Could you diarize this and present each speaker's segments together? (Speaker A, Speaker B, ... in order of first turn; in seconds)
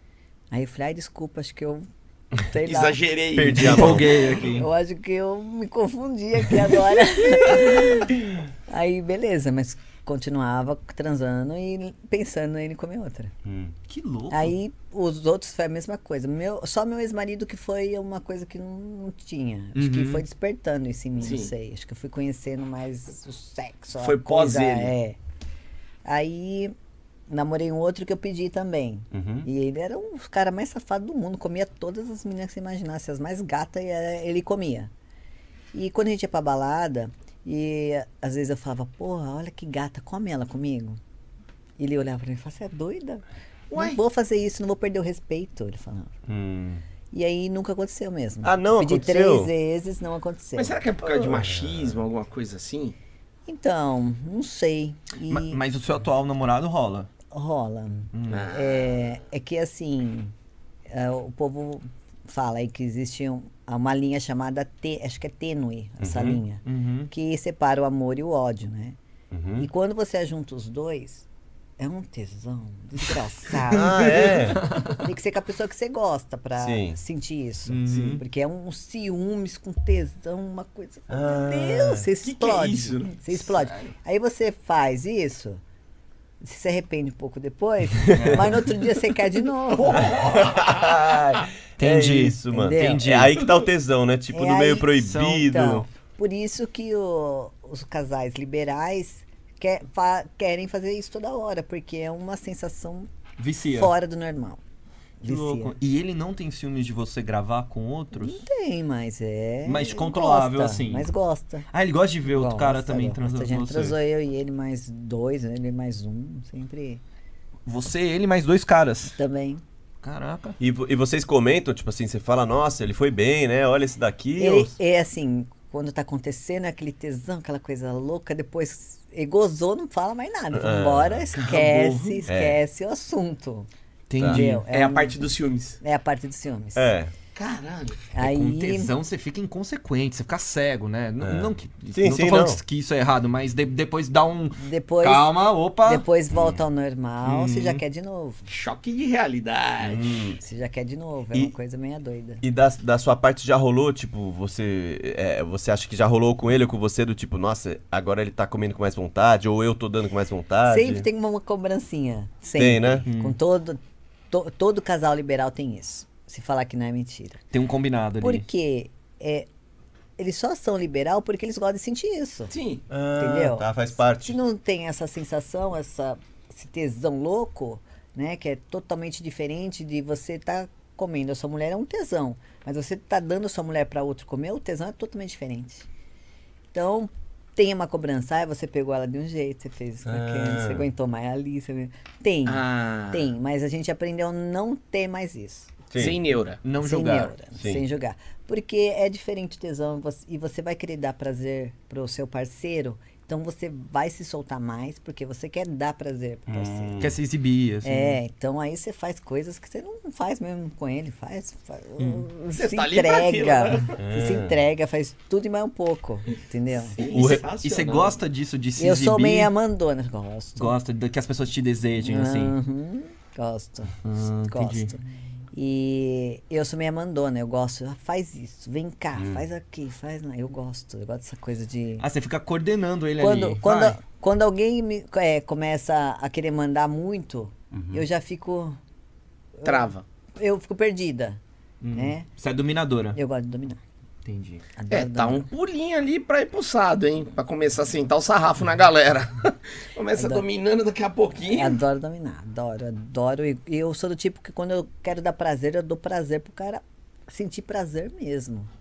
Speaker A: 0.5-3.0, 4.5-13.3, 14.3-25.2, 26.1-26.7, 27.3-34.9, 35.7-41.0, 41.8-46.1, 47.1-50.8, 53.5-55.6, 57.3-60.3, 60.9-69.0, 69.6-71.3, 71.8-85.6, 86.4-90.2, 92.5-93.1, 94.3-103.1, 103.7-104.6, 105.2-105.8, 108.2-111.7, 112.3-117.0, 119.2-119.6, 124.4-133.7, 134.2-135.2, 135.8-136.9, 138.1-138.9, 144.6-148.4, 150.4-152.4, 160.7-163.8, 164.3-167.4, 168.2-169.5, 170.2-172.5, 173.2-185.9, 186.7-195.7, 196.8-207.0, 207.8-217.0, 218.8-220.8, 222.0-232.1, 233.2-238.8, 239.6-241.4, 241.9-242.3, 243.1-243.8, 244.8-245.5, 250.2-250.4, 251.5-258.7
Speaker B: 2.6-4.2, 21.2-21.5, 24.0-24.9, 43.7-44.0, 50.6-53.0, 58.3-58.9, 77.9-78.2, 82.2-83.6, 89.7-91.1, 131.3-132.2, 134.7-135.8, 137.4-138.0, 148.5-150.1, 172.5-172.8, 192.5-193.3, 196.0-196.6, 212.5-213.9, 216.9-218.2, 239.6-240.0, 244.9-251.8
Speaker C: 3.4-4.2, 13.4-13.7, 29.1-29.5, 46.3-46.8, 48.4-49.5, 51.2-51.9, 66.0-66.4, 69.3-69.7, 73.7-74.7, 76.6-77.0, 81.1-82.1, 88.1-88.4, 90.0-95.9, 120.6-124.8, 130.5-131.3, 132.3-132.6, 134.2-134.5, 136.8-137.1, 141.2-142.6, 146.3-146.6, 149.8-150.4, 152.4-161.1, 162.6-163.1, 172.9-174.4, 190.1-190.9, 195.9-196.2, 206.5-207.2, 214.0-214.6, 217.1-217.4, 229.2-229.4, 237.7-238.0
Speaker D: 3.6-4.7, 13.9-14.6, 19.8-20.2, 55.3-57.1, 58.1-58.5, 66.6-67.1, 74.6-75.0, 77.7-78.2, 88.1-88.7, 91.8-93.4, 95.0-95.4, 103.4-103.9, 105.2-108.4, 109.7-111.1, 111.7-114.0, 117.7-119.2, 120.0-120.6, 134.1-134.6, 138.2-146.1, 147.3-147.8, 163.1-163.4, 167.5-168.5, 196.6-197.3, 207.0-208.2, 212.0-212.2, 217.6-219.5, 220.6-222.6, 224.0-224.9, 232.0-234.0, 241.8-243.2, 244.2-244.6